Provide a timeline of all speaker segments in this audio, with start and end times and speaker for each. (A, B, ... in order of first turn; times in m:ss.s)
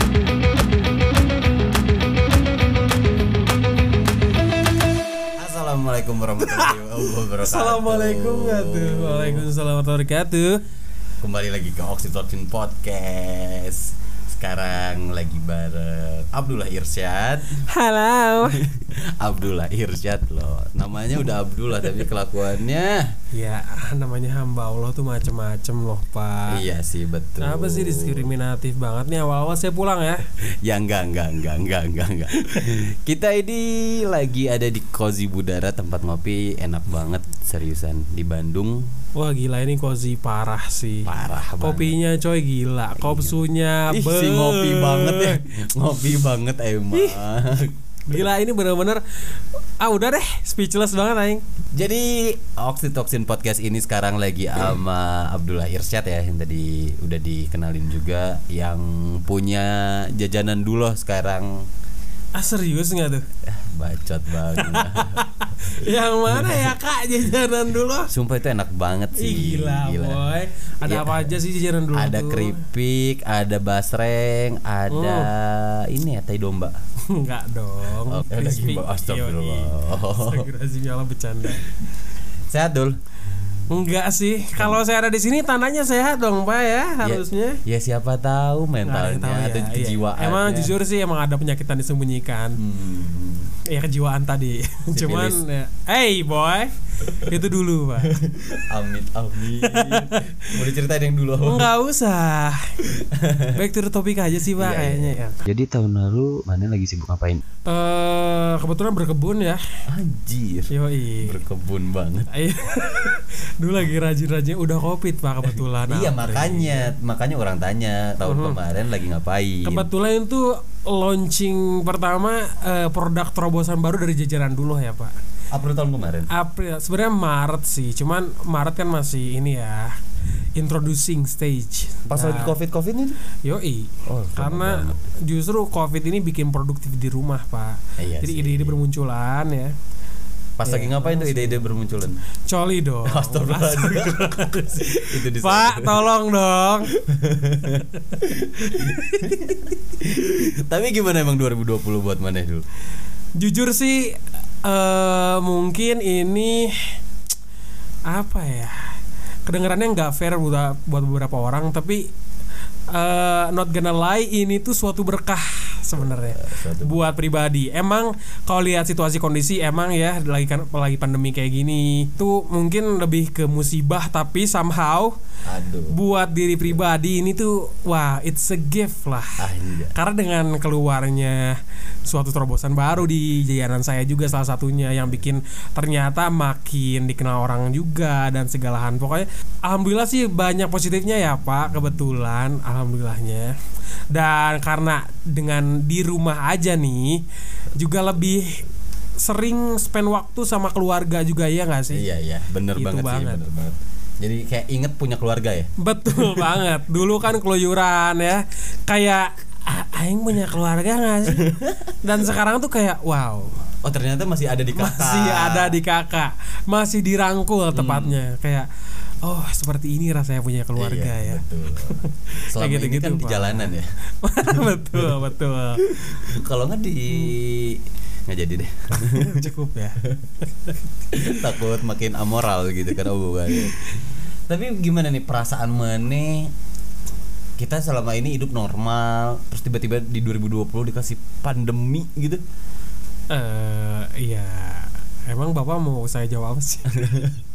0:05.4-0:09.4 A
0:06.4-0:06.8 B
0:07.4-0:10.6 B
0:11.2-0:17.6 A
0:17.6-0:18.6 B
0:18.4-0:23.1 A
0:23.3-0:26.6 B
0:26.5-0:28.3 A
0:27.4-0:30.2 B
0:30.5-0:38.9 A
0:32.4-0:32.8 B
0:39.2-0:45.4 B
0:41.0-0:42.0 A
0:43.0-0:48.3 A
0:46.9-0:47.2 B
0:48.0-0:51.4 B
0:51.7-1:01.7 A
1:02.4-1:03.2 B
1:03.4-1:05.2 A
1:04.5-1:08.1 B
1:05.8-1:06.7 A
1:08.1-1:10.3 A
1:09.2-1:12.6 B
1:10.8-1:11.4 A
1:11.9-1:16.8 A
1:14.9-1:15.3 B
1:17.1-1:21.7 B
1:18.1-1:20.5 A
1:22.5-1:23.0 A
1:23.7-1:27.6 B
1:27.0-1:30.7 A
1:28.8-1:32.6 B
1:32.6-1:33.5 A
1:33.6-1:38.2 B
1:34.9-1:35.4 A
1:38.0-1:41.7 A
1:39.6-1:40.5 B
1:41.4-1:42.8 B
1:42.8-1:43.6 A
1:43.5-1:45.4 B
1:44.6-1:47.4 A
1:47.7-1:49.6 B
1:49.9-1:50.7 A
1:50.7-1:51.4 B
1:51.2-1:52.3 A
1:52.3-1:56.9 B
1:55.9-1:59.9 A
1:58.2-1:58.6 B
1:59.6-2:05.1 B
2:05.5-2:06.3 A
2:06.3-2:10.0 B
2:10.6-2:12.5 B
2:12.1-2:13.2 A
2:13.4-2:19.7 B
2:14.0-2:15.0 A
2:18.0-2:18.8 A
2:20.6-2:22.2 A
2:20.6-2:21.7 B
2:22.5-2:26.9 B
2:23.0-2:26.1 A
2:26.9-2:32.6 A
2:28.7-2:29.0 B
2:33.4-2:37.0 B
2:38.1-2:38.9 B
2:39.5-2:42.1 B
2:42.9-2:55.1 B
2:46.2-2:47.0 A
2:55.4-2:56.0 A
2:55.9-3:13.5 B
2:59.4-2:59.9 A
3:14.1-3:17.2 B
3:17.8-3:18.6 B
3:19.2-3:22.0 B
3:21.9-3:26.6 A
3:22.7-3:23.4 B
3:25.8-3:33.6 B
3:31.3-3:31.8 A
3:33.8-3:35.8 A
3:34.7-3:38.7 B
3:37.7-3:38.2 A
3:39.2-3:45.9 B
3:40.8-3:42.0 A
3:42.5-3:43.9 A
3:44.4-3:45.2 A
3:45.8-3:49.5 A
3:48.9-3:50.0 B
3:51.1-3:53.9 A
3:53.5-3:53.9 B
3:54.5-3:56.5 A
3:57.6-4:02.4 A
4:03.3-4:07.1 B
4:06.9-4:07.4 A